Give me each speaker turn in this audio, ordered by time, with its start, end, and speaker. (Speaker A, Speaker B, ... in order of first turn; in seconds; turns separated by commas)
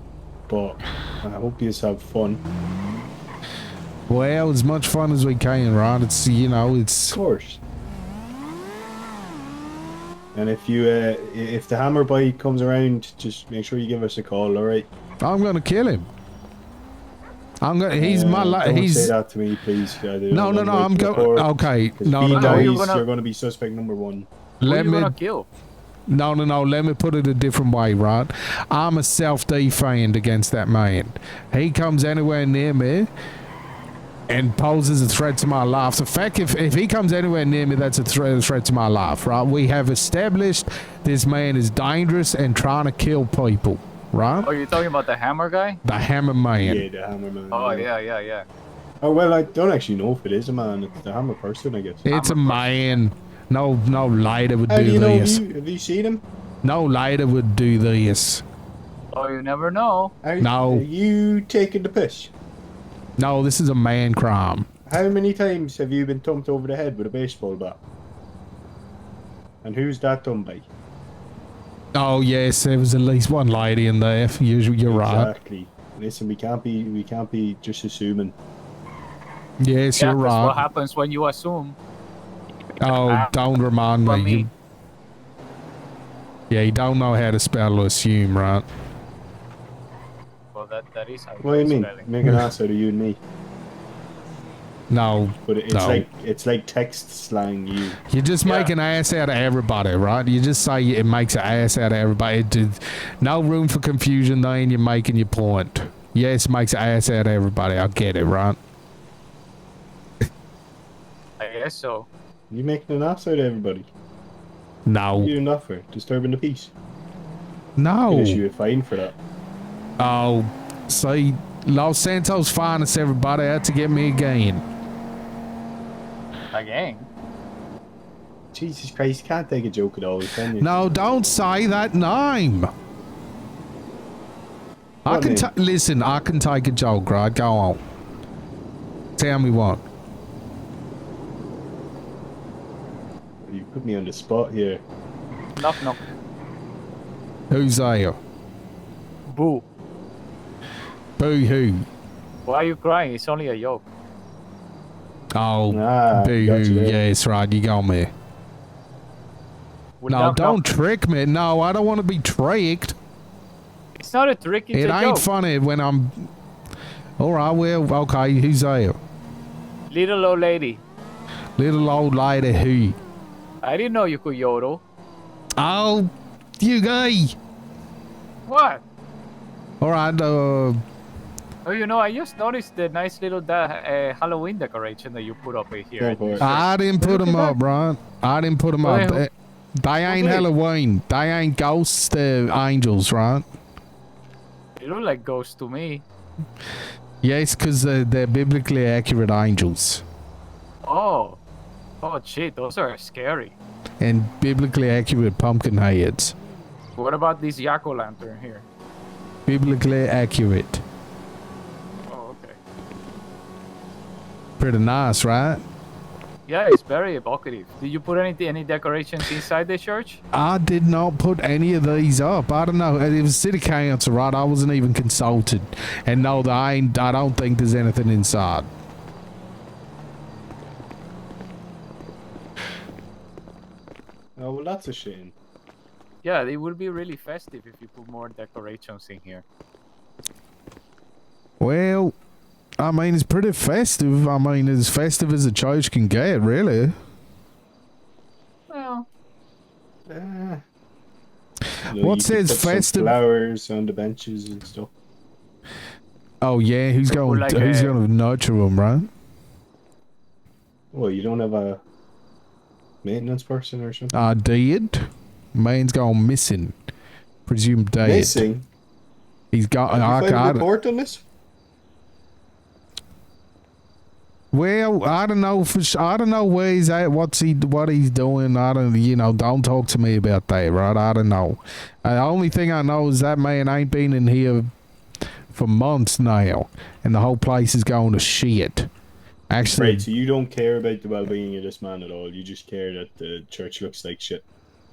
Speaker A: 0.5-2.4, Speaker B: 4.1-7.2, Speaker A: 7.1-7.6, Speaker A: 10.3-14.9, Speaker B: 15.2-16.1, Speaker B: 17.6-19.1, Speaker A: 18.0-24.3, Speaker B: 20.3-22.8, Speaker C: 22.3-23.1, Speaker B: 24.6-25.2, Speaker C: 24.6-25.5, Speaker B: 26.1-33.1, Speaker B: 34.3-44.5, Speaker C: 44.4-45.8, Speaker B: 45.9-46.9, Speaker A: 46.6-47.9, Speaker C: 47.5-48.5, Speaker A: 49.0-52.1, Speaker B: 52.1-55.4, Speaker C: 52.1-53.0, Speaker A: 54.7-56.2, Speaker B: 56.6-58.4, Speaker C: 59.1-60.1, Speaker A: 60.2-62.3, Speaker B: 60.4-60.9, Speaker B: 63.2-64.7, Speaker A: 64.9-67.8, Speaker A: 69.6-70.7, Speaker B: 72.0-75.3, Speaker A: 74.9-78.4, Speaker B: 79.6-80.6, Speaker C: 80.0-81.8, Speaker B: 82.8-84.5, Speaker C: 82.9-83.4, Speaker C: 84.0-84.5, Speaker B: 86.5-88.7, Speaker C: 90.5-92.1, Speaker A: 91.4-93.2, Speaker B: 94.9-96.1, Speaker A: 95.5-98.0, Speaker B: 98.1-108.6, Speaker C: 98.5-98.7, Speaker C: 111.4-112.1, Speaker A: 112.5-113.9, Speaker B: 114.9-115.3, Speaker A: 115.2-116.7, Speaker B: 117.8-118.4, Speaker A: 118.1-119.2, Speaker B: 120.0-124.6, Speaker C: 126.5-127.1, Speaker A: 128.5-131.0, Speaker B: 130.6-132.7, Speaker B: 135.1-137.8, Speaker A: 135.1-135.5, Speaker B: 139.2-139.8, Speaker A: 143.5-144.8, Speaker C: 145.6-146.0, Speaker B: 147.5-148.2, Speaker C: 149.3-149.7, Speaker B: 151.2-151.9, Speaker C: 152.5-153.8, Speaker B: 155.3-158.1, Speaker A: 155.7-157.1, Speaker C: 160.0-160.6, Speaker B: 160.1-163.0, Speaker C: 164.0-165.3, Speaker B: 164.7-166.3, Speaker B: 167.2-169.0, Speaker C: 169.9-170.8, Speaker B: 171.6-173.0, Speaker C: 173.6-174.8, Speaker B: 175.6-177.4, Speaker C: 178.5-178.8, Speaker B: 179.8-180.8, Speaker C: 181.7-187.6, Speaker A: 186.0-186.5, Speaker B: 186.4-193.5, Speaker C: 188.8-189.3, Speaker C: 190.1-190.5, Speaker C: 194.8-196.0, Speaker B: 197.2-200.0, Speaker C: 200.8-201.4, Speaker C: 202.0-203.6, Speaker B: 204.0-206.3, Speaker C: 207.0-208.7, Speaker B: 209.5-210.8, Speaker C: 212.1-212.6, Speaker B: 214.6-215.6, Speaker C: 216.5-220.2, Speaker B: 220.3-228.7, Speaker A: 234.4-235.3, Speaker C: 236.2-239.4, Speaker B: 241.6-242.1, Speaker B: 242.8-247.0, Speaker C: 248.7-249.1, Speaker A: 250.1-250.6, Speaker A: 251.9-254.9, Speaker B: 252.0-253.2, Speaker B: 256.4-259.1, Speaker C: 257.1-258.0, Speaker A: 260.9-261.8, Speaker A: 263.0-264.1, Speaker B: 264.1-266.8, Speaker B: 267.5-268.5, Speaker A: 268.0-268.7, Speaker B: 269.5-270.7, Speaker A: 269.9-271.2, Speaker B: 274.5-284.7, Speaker B: 285.5-288.9, Speaker B: 289.5-290.1, Speaker A: 289.8-294.4